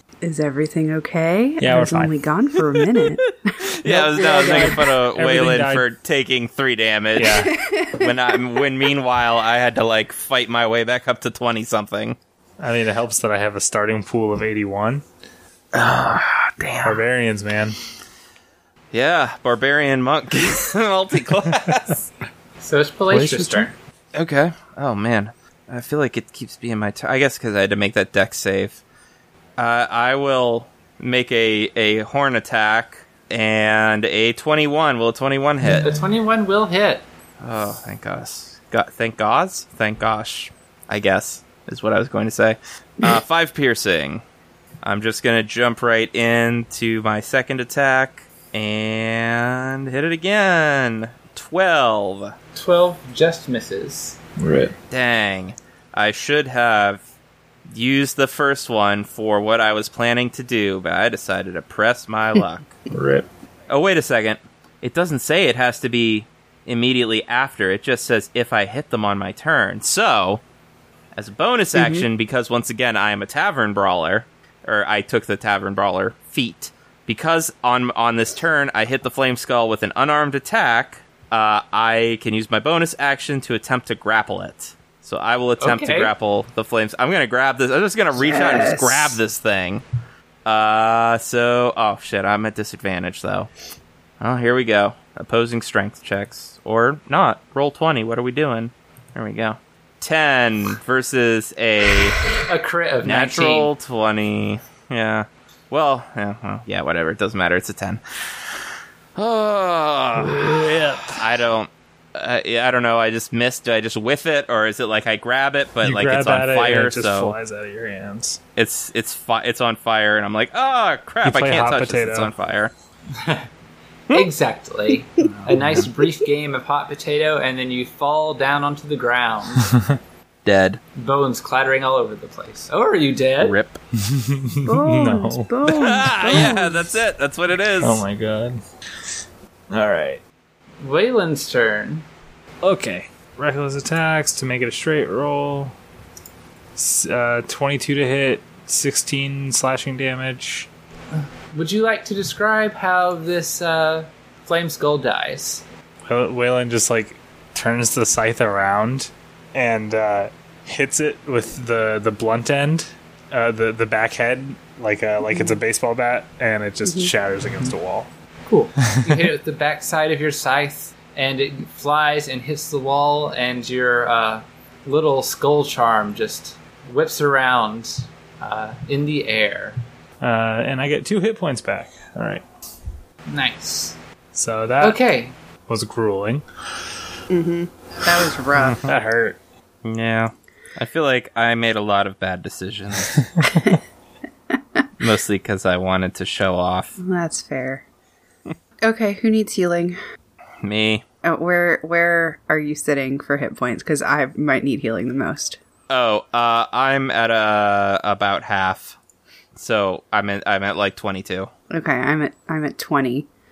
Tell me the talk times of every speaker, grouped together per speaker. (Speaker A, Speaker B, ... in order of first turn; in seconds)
Speaker A: 0.2-4.8, 7.5-8.2, 71.7-72.0, 88.2-89.2, 134.6-136.9, 165.3-165.6, 166.8-167.1, 187.3-188.8, 194.5-194.8, 197.0-197.8, 198.8-200.0, 201.2-205.6, 211.7-213.3
Speaker B: 1.6-2.1, 3.9-5.8, 7.2-7.5, 12.6-15.0, 16.8-17.8, 23.1-23.7, 54.4-54.7, 62.9-63.2, 110.2-111.3, 115.8-118.4, 121.2-122.3, 125.3-125.8, 129.7-130.0, 134.0-136.7, 137.8-138.6, 139.7-140.2, 142.6-145.7, 146.8-150.7, 156.1-168.1, 180.2-182.4, 184.3-185.0, 185.7-186.4, 188.8-189.4, 193.4-193.7
Speaker C: 3.2-12.2, 15.7-17.0, 18.9-22.0, 24.1-28.8, 29.6-35.9, 37.4-44.2, 44.8-52.3, 54.9-57.0, 57.7-62.8, 63.7-70.4, 71.1-89.8, 90.4-93.5, 94.2-102.2, 103.0-108.0, 109.2-117.3, 118.5-122.7, 125.5-125.8, 130.4-130.8, 133.4-133.8, 135.7-138.0, 188.6-188.8, 189.8-193.2, 195.0-196.9, 200.6-201.0, 205.9-208.9, 209.6-211.5
Speaker D: 22.6-23.8, 35.8-37.0, 52.5-54.2, 85.6-86.1, 102.4-103.7, 123.1-123.5, 124.1-129.7, 130.9-133.6, 140.8-142.0, 151.1-155.6, 168.5-179.8, 183.3-183.9, 184.8-185.3